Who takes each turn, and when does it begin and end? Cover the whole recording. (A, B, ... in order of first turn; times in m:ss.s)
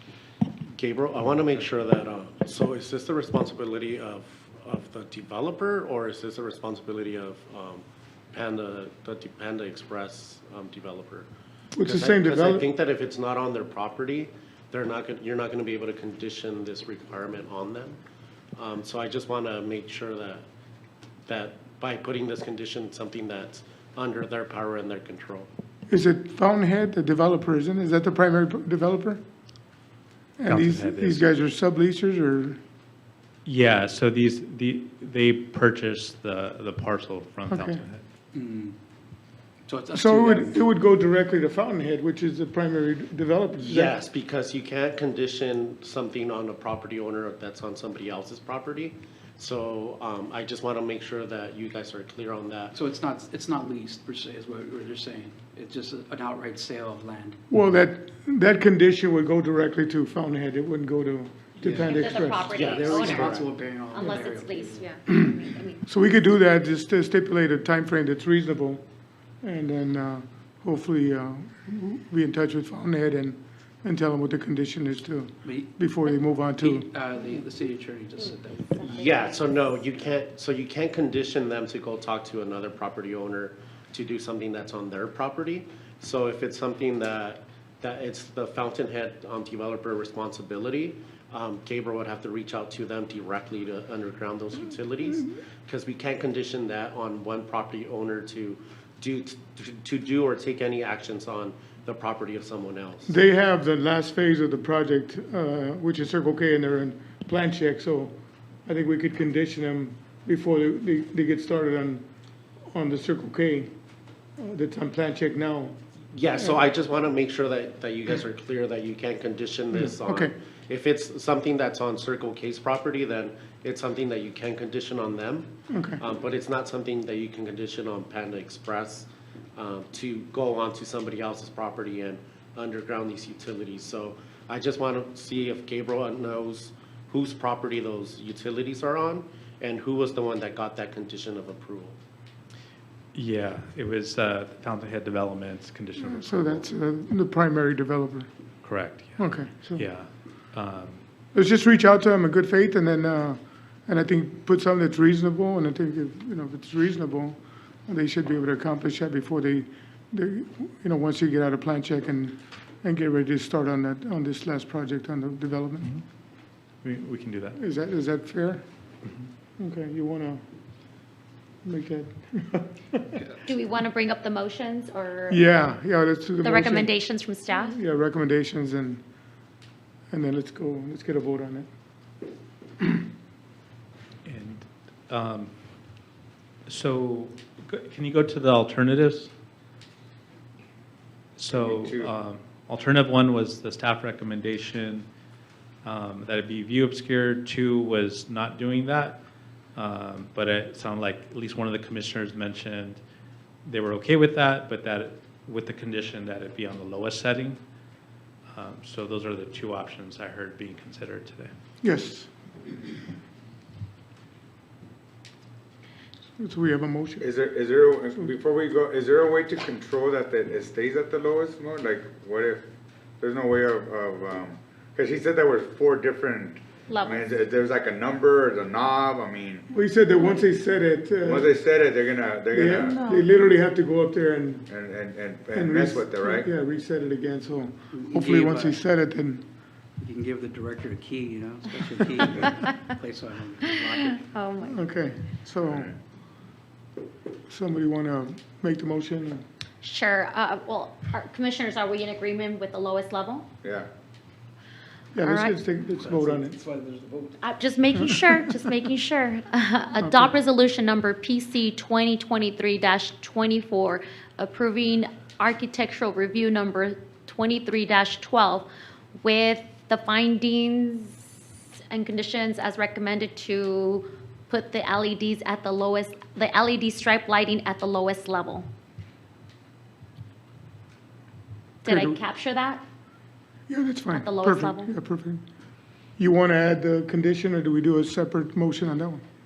0:00.7-0:11.3 A
0:11.7-0:12.6 B
0:11.8-0:18.0 A
0:18.6-0:20.4 A
0:21.3-0:25.5 A
0:25.9-0:29.2 B
0:30.4-0:32.6 B
0:30.5-0:31.2 C
0:33.4-0:38.0 C
0:37.5-0:37.8 B
0:38.3-0:38.8 D
0:39.7-0:40.6 D
0:39.9-0:43.9 B
0:43.6-0:52.7 A
0:52.7-0:57.4 D
0:57.5-1:02.5 B
1:01.6-1:04.9 D
1:01.8-1:05.8 E
1:02.5-1:03.5 A
1:05.1-1:08.8 B
1:09.4-1:16.8 B
1:15.4-1:19.4 D
1:18.8-1:19.6 E
1:18.9-1:43.1 A
1:43.1-1:48.1 B
1:48.7-1:52.0 B
1:52.7-1:53.7 B
1:54.4-1:55.8 B
1:56.1-2:22.0 A
1:59.7-2:00.3 B
2:05.7-2:06.0 B
2:23.1-2:26.7 C
2:26.0-2:28.3 B
2:28.6-2:31.0 C
2:29.2-2:29.9 B
2:31.3-2:45.9 B
2:46.8-2:47.6 C
2:47.6-2:48.6 B
2:49.6-2:50.4 B
2:51.6-2:53.1 B
2:53.4-2:55.5 E
2:55.3-2:57.0 B
2:56.4-2:57.8 E
2:57.6-2:59.0 B
3:00.1-3:01.7 B
3:04.2-3:05.5 C
3:06.7-3:09.3 C
3:11.4-3:15.1 C
3:11.5-3:12.1 F
3:15.8-3:19.2 C
3:19.8-3:23.0 C
3:23.6-3:27.6 C
3:28.5-3:31.5 C
3:31.8-3:32.3 B
3:36.4-3:37.3 B
3:37.2-3:42.7 F
3:43.2-3:49.6 F
3:46.9-3:47.3 E
3:49.7-3:51.5 B
3:51.2-3:53.0 F
3:52.5-3:54.7 B
3:52.9-3:53.3 E
3:54.7-3:56.5 F
3:55.5-3:59.4 B
3:57.9-3:58.8 D
4:00.0-4:04.2 D
4:04.1-4:04.8 E
4:04.6-4:05.9 B
4:07.5-4:09.4 B
4:09.8-4:13.5 E
4:13.6-4:13.9 F
4:15.2-4:16.6 B
4:15.2-4:15.6 E
4:16.0-4:17.5 D
4:17.4-4:28.7 E
4:29.2-4:31.4 E
4:31.9-4:38.6 E
4:41.8-4:42.8 E
4:41.9-4:42.2 B
4:43.7-4:45.4 B
4:44.1-4:44.9 E
4:46.2-4:49.2 B